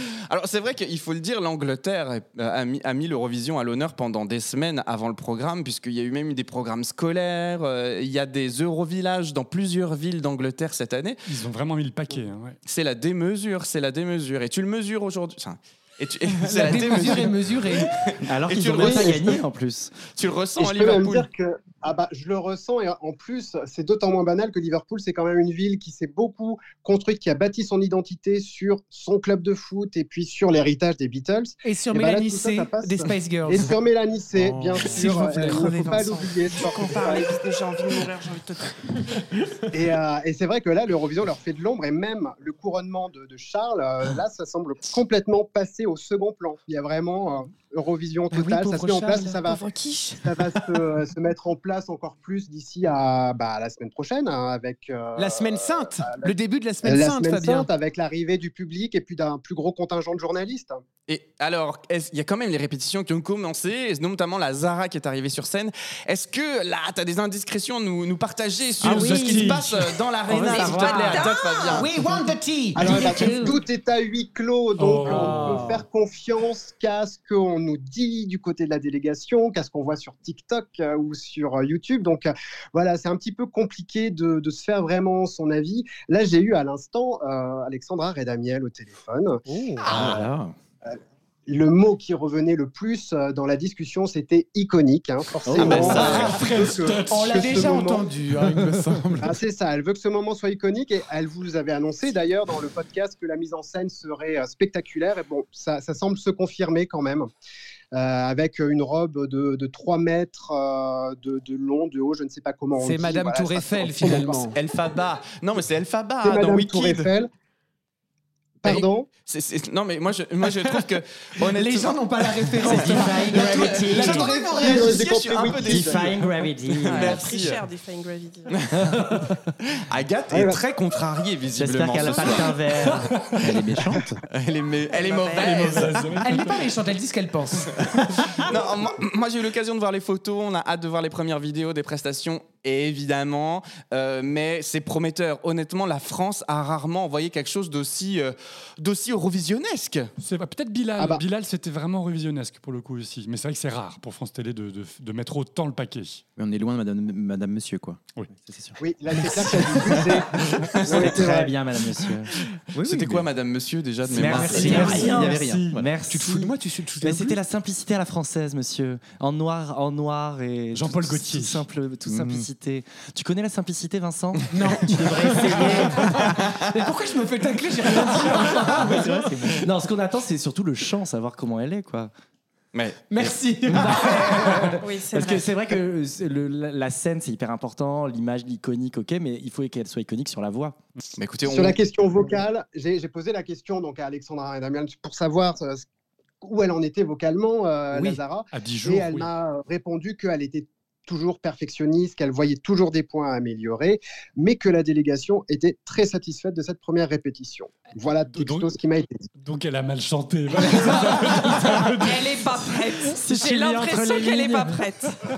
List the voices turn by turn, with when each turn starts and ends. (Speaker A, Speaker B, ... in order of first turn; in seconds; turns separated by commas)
Speaker A: 0.3-11.2, Speaker B: 11.3-12.6, Speaker A: 12.7-19.4, Speaker C: 16.4-17.9, Speaker D: 18.2-20.0, Speaker E: 18.8-19.3, Speaker A: 20.2-21.3, Speaker E: 20.6-37.4, Speaker C: 31.6-33.8, Speaker F: 34.4-34.9, Speaker C: 34.8-37.1, Speaker G: 35.0-38.9, Speaker E: 39.7-49.6, Speaker C: 48.3-49.4, Speaker G: 49.4-50.2, Speaker E: 50.2-60.8, Speaker C: 55.2-57.7, Speaker A: 61.1-71.9, Speaker B: 68.8-69.7, Speaker G: 68.9-69.3, Speaker C: 69.0-69.6, Speaker C: 70.3-73.6, Speaker G: 70.3-71.9, Speaker E: 72.0-89.4, Speaker B: 74.8-75.7, Speaker C: 75.1-75.7, Speaker F: 89.9-90.5, Speaker E: 91.5-98.0, Speaker D: 95.5-96.2, Speaker A: 95.6-96.3, Speaker B: 95.7-97.7, Speaker C: 95.9-99.4, Speaker B: 98.4-98.7, Speaker E: 99.2-107.3, Speaker E: 107.9-114.5, Speaker C: 112.8-114.6, Speaker A: 114.5-117.1, Speaker E: 116.2-117.3, Speaker E: 118.6-119.1, Speaker A: 118.7-126.2, Speaker C: 121.5-125.2, Speaker D: 122.6-124.3, Speaker E: 124.2-126.3, Speaker D: 125.6-127.2, Speaker A: 126.8-127.6, Speaker G: 126.9-128.6, Speaker A: 129.9-132.5, Speaker E: 130.3-130.6, Speaker D: 131.6-133.1, Speaker F: 131.6-132.4, Speaker F: 133.4-134.1, Speaker A: 134.3-136.1, Speaker G: 134.9-135.9, Speaker B: 135.3-136.6, Speaker C: 135.8-137.8, Speaker A: 138.4-150.1, Speaker B: 150.2-156.2, Speaker E: 151.0-151.2, Speaker F: 156.4-158.8, Speaker E: 158.8-161.5, Speaker A: 160.8-161.2, Speaker D: 160.9-162.3, Speaker F: 162.8-163.3, Speaker A: 162.8-165.2, Speaker D: 164.1-176.3, Speaker F: 164.2-165.9, Speaker C: 164.3-165.2, Speaker B: 164.7-165.0, Speaker C: 166.1-167.4, Speaker B: 170.7-171.6, Speaker F: 172.1-172.5, Speaker C: 174.5-179.7, Speaker D: 178.2-182.1, Speaker A: 182.7-183.3, Speaker C: 183.1-184.8, Speaker D: 183.7-190.8, Speaker G: 184.8-185.5, Speaker A: 191.2-191.8, Speaker E: 191.4-195.9, Speaker E: 196.4-209.3, Speaker C: 197.9-198.2, Speaker B: 198.5-199.3, Speaker B: 208.3-208.7, Speaker B: 209.4-212.7, Speaker G: 212.1-215.2, Speaker D: 213.1-214.8